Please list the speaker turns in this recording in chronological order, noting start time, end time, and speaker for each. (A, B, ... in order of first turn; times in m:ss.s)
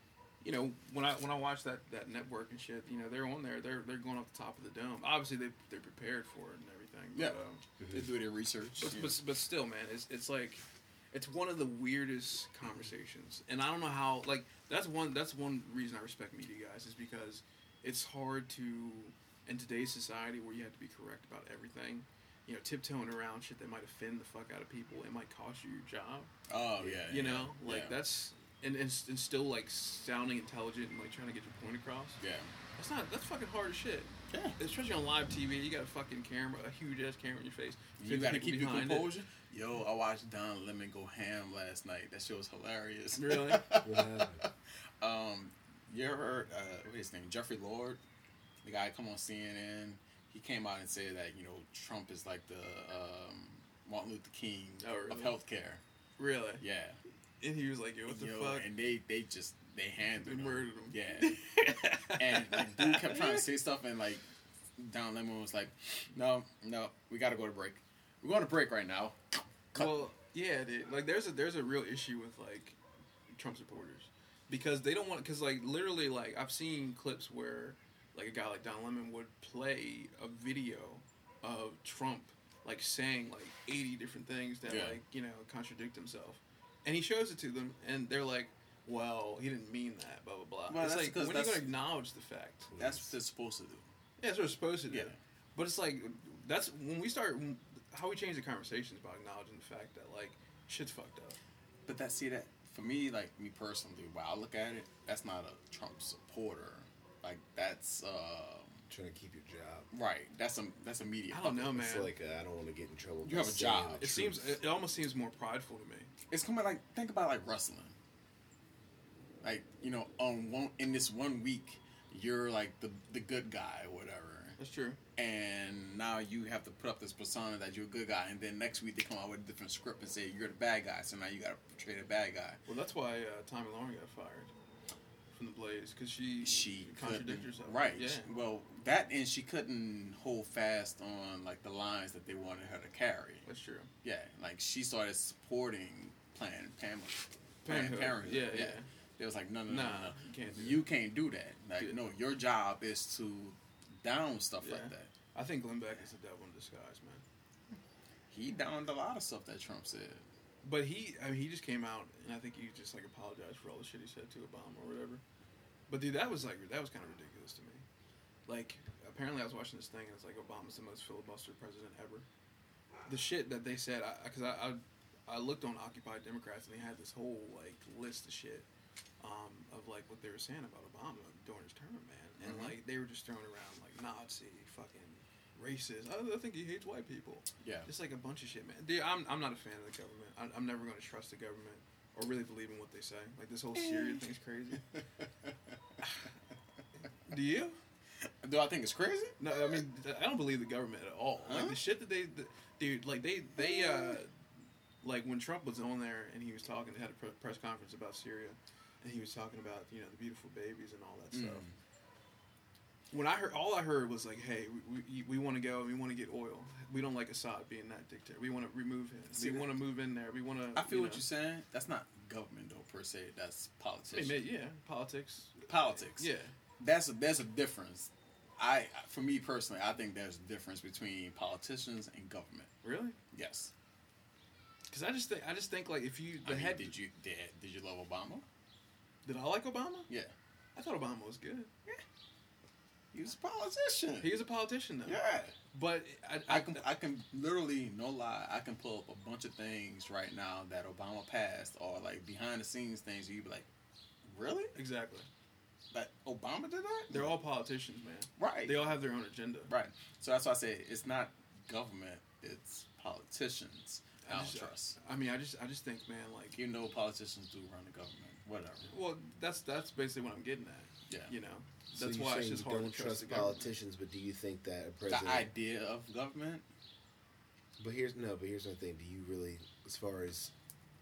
0:00.4-0:07.6 A
0:07.1-0:09.2 B
0:07.8-0:08.1 C
0:08.8-0:26.3 A
0:26.5-0:28.0 B
0:27.1-0:32.2 A
0:32.2-0:32.5 B
0:32.8-0:39.1 A
0:34.3-0:34.6 B
0:38.0-0:48.0 B
0:43.2-0:43.7 A
0:43.8-0:44.4 C
0:48.6-0:55.8 B
0:54.8-0:55.3 A
0:56.2-0:56.6 A
0:56.6-0:57.0 B
0:57.4-0:58.7 A
0:58.1-1:01.4 B
1:00.2-1:03.4 A
1:02.2-1:04.2 B
1:04.8-1:09.2 B
1:09.7-1:10.0 B
1:09.7-1:12.8 A
1:13.3-1:32.7 A
1:24.6-1:25.0 B
1:30.7-1:31.8 B
1:32.7-1:33.1 C
1:32.8-1:33.8 B
1:34.2-1:41.4 A
1:34.9-1:35.2 B
1:41.8-1:48.8 B
1:48.9-1:49.9 C
1:49.9-1:51.8 B
1:51.3-1:52.1 A
1:51.7-1:54.5 C
1:53.2-1:54.2 B
1:54.0-1:56.1 A
1:56.3-1:57.9 B
1:59.4-2:04.6 B
2:04.6-2:05.0 A
2:05.2-2:12.6 B
2:12.6-2:14.5 A
2:15.3-2:18.3 A
2:16.4-2:23.4 B
2:23.4-2:23.9 A
2:24.0-2:35.1 B
2:27.6-2:28.9 A
2:29.7-2:30.9 A
2:34.6-2:37.2 A
2:38.3-2:40.2 B
2:40.6-2:45.2 A
2:45.9-2:47.8 A
2:48.5-2:52.2 A
2:53.1-2:58.7 A
2:59.2-3:14.8 A
3:02.4-3:02.8 B
3:07.6-3:07.9 B
3:13.7-3:14.2 B
3:14.9-3:15.8 B
3:17.3-3:17.8 A
3:18.2-3:19.8 B
3:19.4-3:24.4 A
3:21.4-3:21.8 B
3:23.6-3:24.2 B
3:25.0-3:31.6 A
3:31.3-3:31.7 B
3:33.1-3:41.2 A
3:39.3-3:39.8 B
3:40.8-3:44.4 B
3:44.1-3:46.5 A
3:45.7-3:52.7 B
3:52.8-3:53.2 A
3:53.3-3:53.7 B
3:54.9-3:56.9 A
3:56.4-3:58.4 B
3:59.2-4:00.1 A
4:00.1-4:00.3 B
4:00.7-4:01.7 A
4:03.1-4:04.3 B
4:04.2-4:05.2 A
4:05.0-4:05.6 B
4:05.7-4:06.8 A
4:06.5-4:13.7 B
4:14.2-4:14.7 B
4:14.7-4:15.3 A
4:15.9-4:17.3 B
4:17.1-4:19.7 A
4:18.4-4:18.9 B
4:19.7-4:25.0 B
4:24.2-4:26.6 A
4:26.5-4:28.9 B
4:28.8-4:33.7 A
4:31.9-4:35.5 C
4:35.1-4:36.6 B
4:37.8-4:40.5 C